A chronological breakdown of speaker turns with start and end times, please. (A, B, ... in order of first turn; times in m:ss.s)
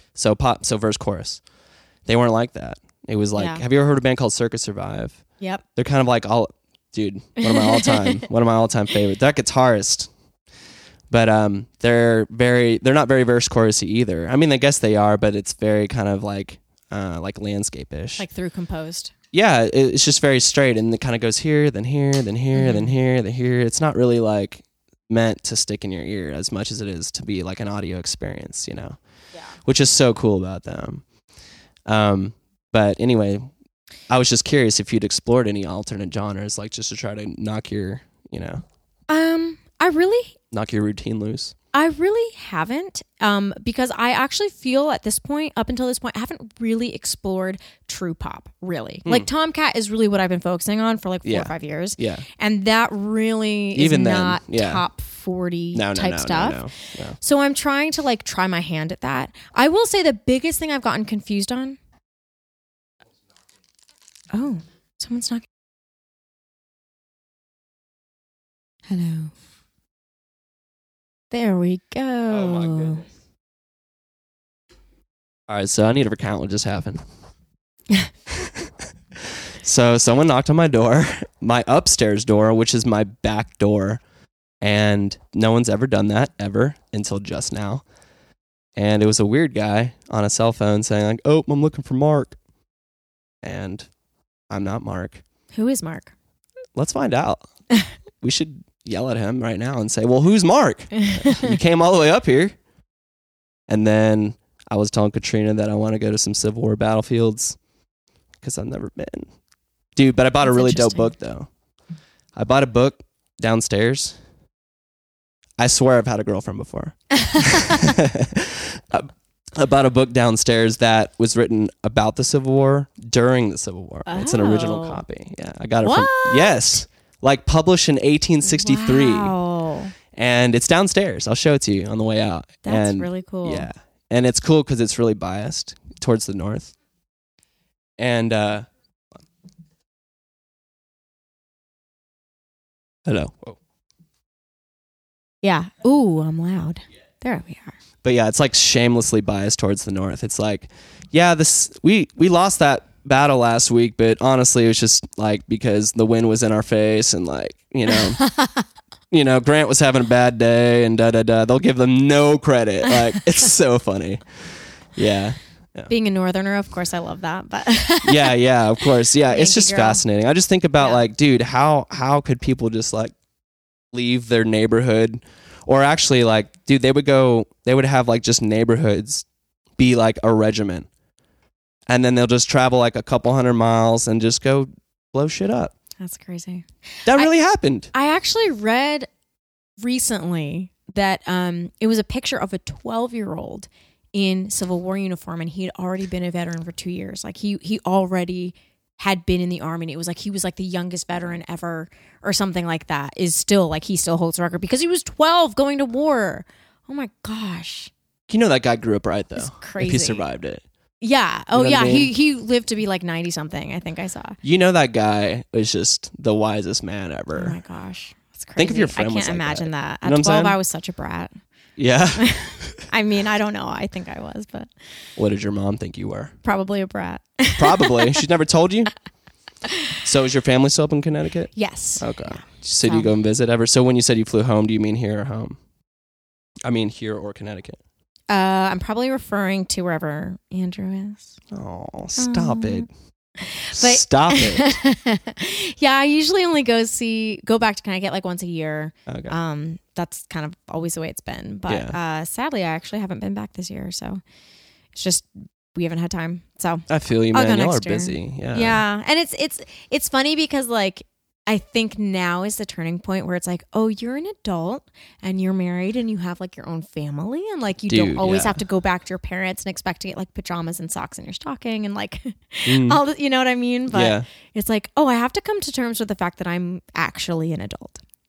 0:00.1-0:01.4 A
0:02.0-0:05.2 A
0:03.4-0:03.6 B
0:05.7-0:10.1 A
0:07.4-0:08.2 B
0:11.1-0:18.2 A
0:18.2-0:19.1 B
0:19.3-0:29.0 A
0:22.5-0:22.9 B
0:29.6-0:31.0 A
0:31.9-0:33.5 A
0:34.1-0:38.6 A
0:39.1-0:40.4 B
0:40.5-0:41.5 A
0:41.7-0:56.7 B
0:51.2-0:52.2 A
0:53.7-0:54.8 A
0:55.7-0:57.2 A
0:57.2-1:01.8 B
1:04.3-1:05.4 B
1:08.9-1:09.3 B
1:11.3-1:13.0 B
1:12.3-1:13.0 A
1:15.5-1:17.0 A
1:19.6-1:24.0 A
1:24.6-1:27.8 A
1:28.8-1:32.4 A
1:33.4-1:33.9 A
1:34.5-1:35.2 A
1:35.5-1:36.1 B
1:36.8-1:37.5 A
1:38.2-1:42.6 A
1:41.1-1:41.5 B
1:43.7-1:47.6 A
1:48.4-1:49.3 A
1:50.0-1:51.5 A
1:50.4-1:51.1 B
1:52.3-1:54.2 A
1:55.6-2:09.3 A
1:57.2-1:58.0 B
2:04.0-2:05.0 B
2:05.8-2:06.8 B
2:08.4-2:09.9 B
2:10.1-2:16.7 A
2:12.6-2:13.7 B
2:18.0-2:18.7 A
2:23.0-2:23.6 A
2:25.4-2:27.7 B
2:28.0-2:38.2 A
2:37.9-2:38.6 B
2:39.1-2:44.2 A
2:44.9-2:45.9 A
2:45.9-2:50.0 B
2:48.0-2:53.1 A
2:53.9-2:59.2 A
2:59.8-3:00.9 A
3:01.9-3:05.7 A
3:06.0-3:07.3 B
3:07.0-3:07.9 A
3:07.9-3:09.1 B
3:09.8-3:27.9 B
3:28.3-3:30.6 A
3:29.4-3:30.2 B
3:31.0-3:34.4 B
3:31.5-3:32.1 A
3:34.4-3:37.6 A
3:37.3-3:41.3 B
3:38.6-3:40.6 A
3:41.8-3:42.8 A
3:42.2-3:44.7 B
3:45.2-3:46.3 A
3:46.4-3:48.2 B
3:47.6-3:48.9 A
3:50.0-3:55.6 A
3:51.5-3:53.1 B
3:56.6-3:57.8 A
3:58.3-4:01.4 B
4:01.5-4:02.9 A
4:02.2-4:02.9 B
4:03.4-4:14.2 B
4:03.7-4:04.7 A
4:09.1-4:09.3 A
4:11.7-4:12.0 A
4:14.9-4:38.0 B
4:16.9-4:18.8 A
4:27.9-4:28.6 A
4:32.6-4:33.0 A
4:33.9-4:34.2 A